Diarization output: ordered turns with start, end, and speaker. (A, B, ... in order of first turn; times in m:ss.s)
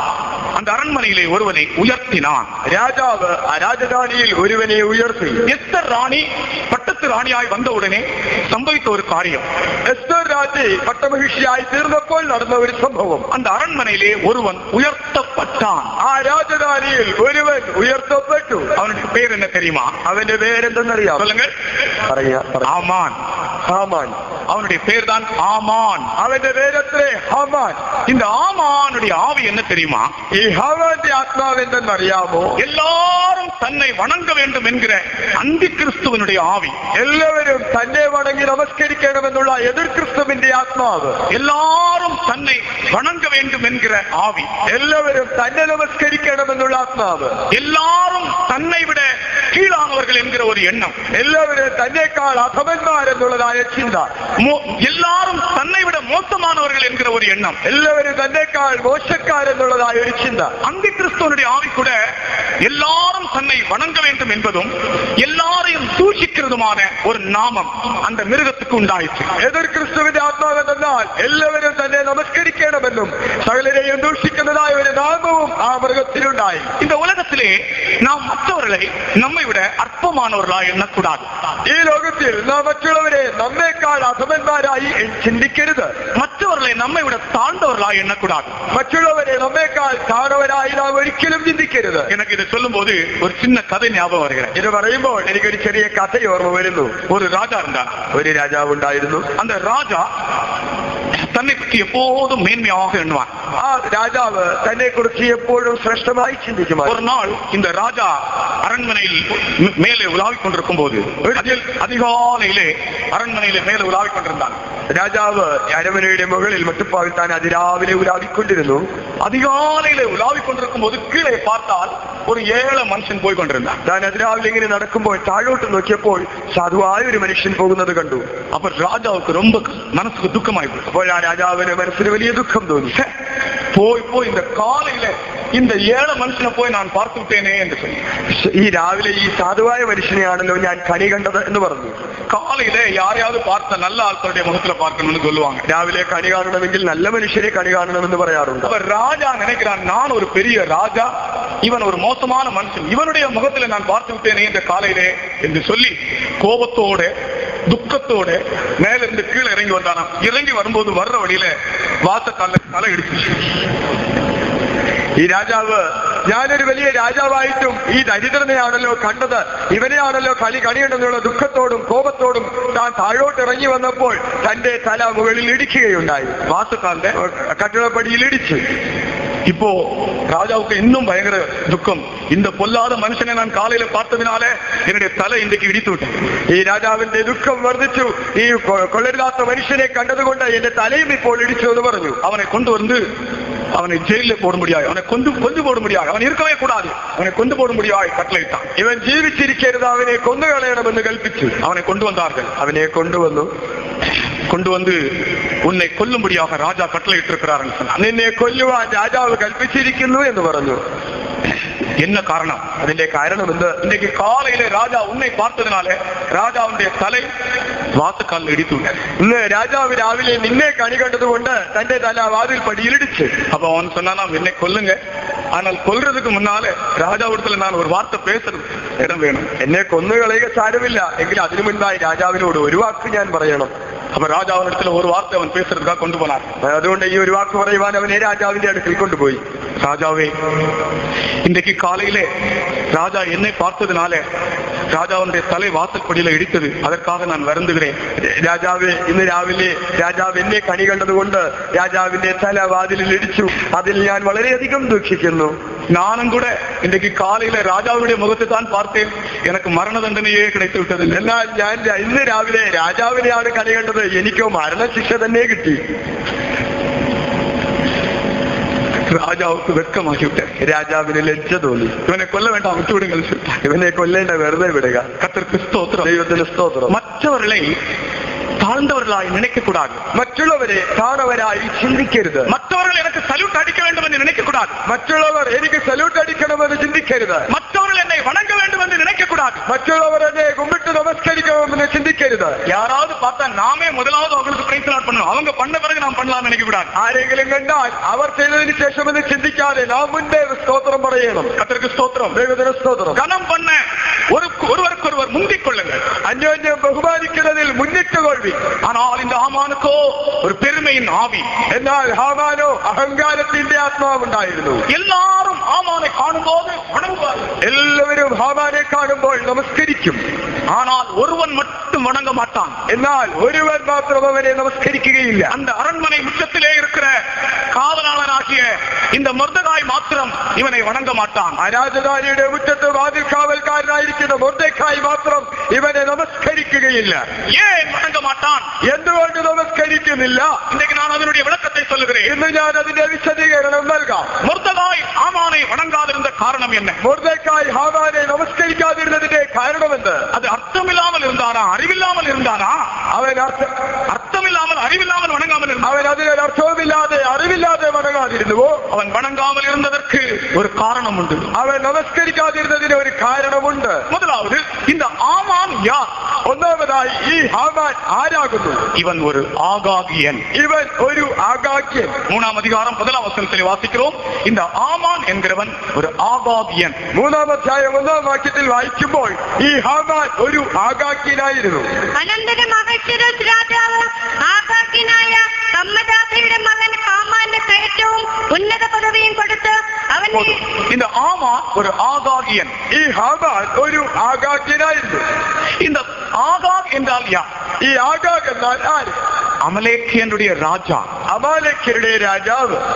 0:00.5-0:02.5 A
0:02.6-0:05.4 B
0:05.5-0:09.5 A
0:09.9-0:13.3 B
0:13.3-0:15.9 A
0:16.0-0:18.7 B
0:18.8-0:19.9 A
0:20.0-0:21.3 B
0:21.2-0:21.5 A
0:22.1-0:22.8 B
0:22.6-0:23.2 A
0:23.7-0:24.2 B
0:24.5-0:26.1 A
0:26.2-0:27.8 B
0:28.1-0:30.1 A
0:30.3-0:32.6 B
0:32.6-0:36.8 A
0:36.9-0:41.2 B
0:41.3-0:44.5 A
0:44.7-0:47.4 B
0:47.5-0:51.0 A
0:51.1-0:54.1 B
0:54.4-0:57.6 A
0:57.6-1:00.6 B
1:00.6-1:01.9 A
1:02.6-1:09.4 A
1:09.4-1:16.7 B
1:16.8-1:21.3 A
1:21.7-1:25.9 B
1:26.1-1:28.6 A
1:28.7-1:32.1 B
1:32.1-1:34.5 A
1:34.6-1:37.0 B
1:37.1-1:38.0 A
1:38.1-1:39.3 B
1:39.4-1:40.1 A
1:41.3-1:43.3 A
1:43.6-1:47.0 B
1:46.8-1:54.6 A
1:51.2-1:51.6 B
1:54.9-1:58.9 B
1:59.2-2:03.8 A
2:03.9-2:08.3 B
2:08.5-2:10.9 A
2:10.9-2:12.9 B
2:13.7-2:18.0 A
2:18.3-2:22.0 B
2:22.3-2:25.6 A
2:25.6-2:28.7 B
2:28.6-2:31.1 A
2:31.6-2:37.1 A
2:37.7-2:41.5 A
2:42.0-2:43.5 A
2:45.2-2:56.4 B
2:56.4-2:57.2 A
2:57.1-2:58.6 B
2:59.5-3:06.2 A
3:06.5-3:12.2 B
3:12.2-3:13.0 A
3:13.7-3:18.7 A
3:18.8-3:21.5 B
3:21.6-3:22.5 A
3:22.6-3:23.5 B
3:24.5-3:25.0 A
3:25.6-3:28.0 A
3:28.0-3:30.8 B
3:32.0-3:32.6 A
3:32.8-3:33.8 B
3:33.8-3:37.3 A
3:37.9-3:39.0 A
3:39.2-3:43.3 B
3:43.5-3:45.0 A
3:45.5-3:49.5 A
3:49.6-3:53.7 B
3:54.1-3:56.4 A
3:56.6-3:59.4 B
3:59.8-4:00.3 A
4:01.4-4:02.3 A
4:02.9-4:04.2 A
4:04.9-4:08.0 A
4:08.2-4:15.6 B
4:15.9-4:21.2 A
4:21.1-4:25.8 B
4:29.0-4:30.5 A
4:30.6-4:31.9 B
4:32.1-4:33.6 A
4:33.6-4:35.2 B
4:35.2-4:36.1 A
4:36.0-4:36.9 B
4:36.9-4:37.7 A
4:38.6-4:40.0 A
4:40.1-4:42.5 B
4:42.5-4:44.8 A
4:44.9-4:47.5 B
4:47.5-4:49.6 A
4:49.7-4:52.6 B
4:52.6-4:56.9 A
4:56.9-5:01.5 B
5:01.6-5:02.4 A
5:02.3-5:03.2 B
5:03.1-5:06.0 A
5:06.2-5:08.6 B
5:08.8-5:11.5 A
5:11.7-5:14.8 B
5:14.9-5:17.6 A
5:17.6-5:20.2 B
5:20.7-5:22.8 A
5:22.9-5:25.5 B
5:25.5-5:27.2 A
5:27.7-5:31.6 A
5:31.6-5:37.3 B
5:37.5-5:38.7 A
5:38.8-5:40.6 B
5:40.7-5:42.3 A
5:42.2-5:44.3 B
5:44.4-5:47.0 A
5:47.0-5:50.3 B
5:50.3-5:52.8 A
5:53.1-5:53.7 B
5:54.1-5:56.0 A
5:55.8-5:58.8 B
5:58.9-6:01.5 A
6:01.6-6:04.0 B
6:04.1-6:06.1 A
6:06.5-6:08.9 B
6:08.9-6:10.4 A
6:10.5-6:12.2 B
6:12.3-6:17.0 A
6:17.1-6:21.9 B
6:22.2-6:30.6 C
6:30.9-6:32.7 A
6:32.9-6:35.2 B
6:35.8-6:37.5 A
6:37.8-6:39.2 B
6:39.6-6:41.1 A
6:41.3-6:42.8 B